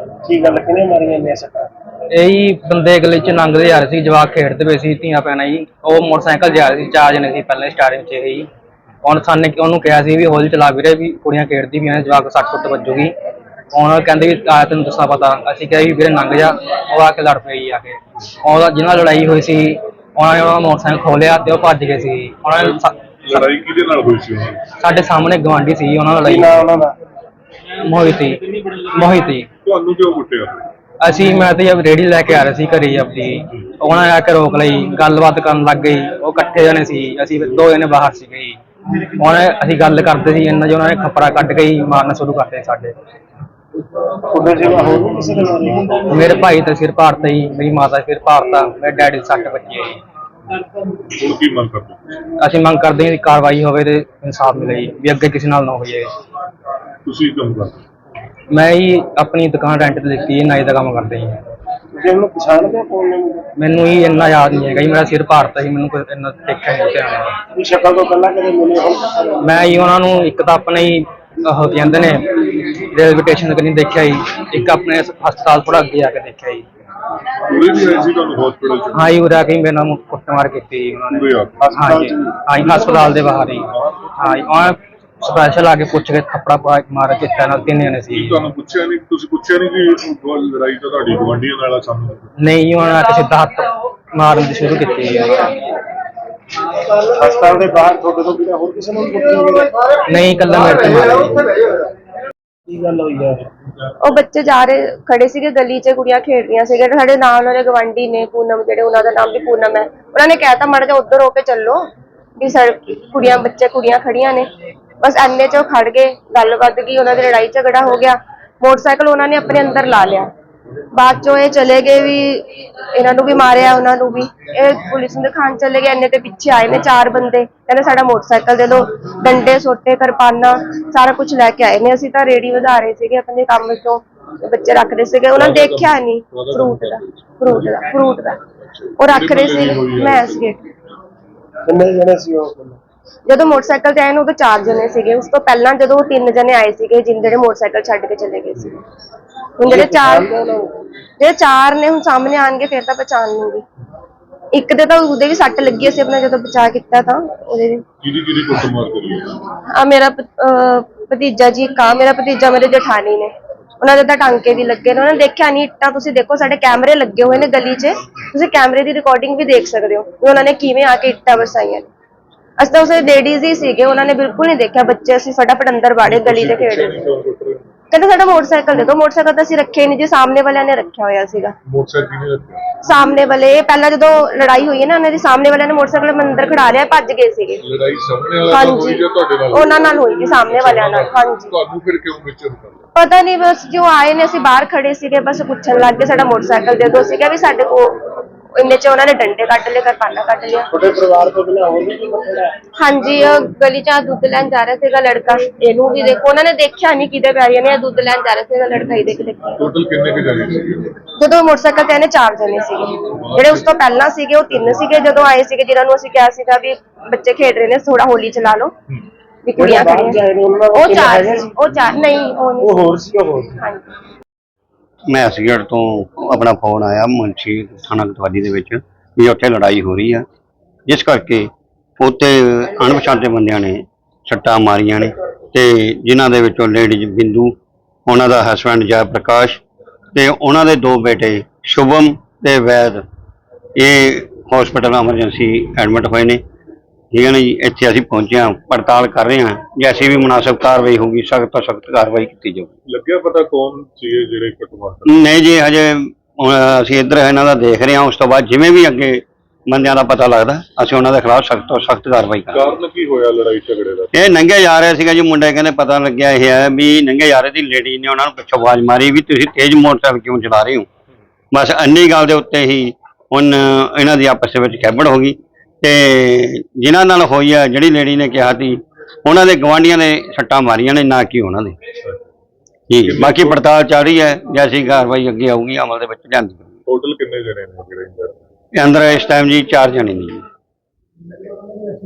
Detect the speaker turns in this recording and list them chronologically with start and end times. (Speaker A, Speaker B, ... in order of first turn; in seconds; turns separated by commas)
Speaker A: 0.2-1.7, Speaker B: 2.1-8.5, Speaker B: 9.0-13.1, Speaker B: 13.7-23.4, Speaker C: 22.6-24.6, Speaker B: 24.8-26.6, Speaker A: 26.2-26.9, Speaker B: 27.8-29.5, Speaker C: 29.6-30.7, Speaker B: 31.0-38.6, Speaker B: 39.2-42.9, Speaker A: 44.3-46.3, Speaker C: 44.6-45.7, Speaker B: 46.1-50.0, Speaker C: 51.1-52.2, Speaker B: 52.4-56.1, Speaker C: 57.0-57.8, Speaker B: 58.5-61.4, Speaker A: 61.9-63.5, Speaker B: 63.5-67.3, Speaker A: 67.5-69.4, Speaker B: 69.4-76.6, Speaker C: 77.5-79.1, Speaker B: 78.9-88.4, Speaker C: 81.1-81.6, Speaker A: 81.6-82.4, Speaker C: 83.7-84.4, Speaker C: 88.1-92.3, Speaker B: 92.4-95.6, Speaker A: 96.9-99.7, Speaker B: 100.0-101.6, Speaker A: 102.7-103.5, Speaker D: 104.0-111.8, Speaker D: 112.4-114.5, Speaker D: 115.0-120.3, Speaker D: 120.9-138.4, Speaker C: 135.3-137.8, Speaker C: 138.6-140.5, Speaker D: 139.0-140.6, Speaker A: 141.7-142.8, Speaker D: 143.3-148.8, Speaker D: 149.6-150.3, Speaker A: 149.6-150.8, Speaker D: 151.2-153.6, Speaker D: 154.5-157.8, Speaker C: 158.0-159.4, Speaker D: 159.7-171.9, Speaker D: 172.6-177.0, Speaker C: 176.0-177.7, Speaker D: 177.9-181.5, Speaker C: 181.7-182.7, Speaker D: 182.8-187.6, Speaker C: 187.6-192.9, Speaker D: 188.5-191.5, Speaker D: 192.9-198.0, Speaker D: 198.6-200.7, Speaker A: 200.7-202.5, Speaker D: 202.8-209.6, Speaker C: 209.6-210.9, Speaker D: 211.2-218.7, Speaker C: 213.1-213.7, Speaker D: 219.4-220.2, Speaker A: 219.6-221.5, Speaker D: 220.7-222.9, Speaker A: 222.6-223.6, Speaker D: 223.6-223.9, Speaker E: 225.1-230.2, Speaker E: 230.9-237.5, Speaker E: 238.1-239.6, Speaker E: 240.1-243.0, Speaker E: 243.8-246.4, Speaker E: 247.1-252.7, Speaker C: 252.8-255.1, Speaker E: 255.1-262.6, Speaker C: 262.5-264.1, Speaker E: 264.1-270.9, Speaker E: 271.5-281.8, Speaker E: 282.9-286.7, Speaker C: 283.0-283.6, Speaker C: 286.9-288.4, Speaker E: 288.7-290.4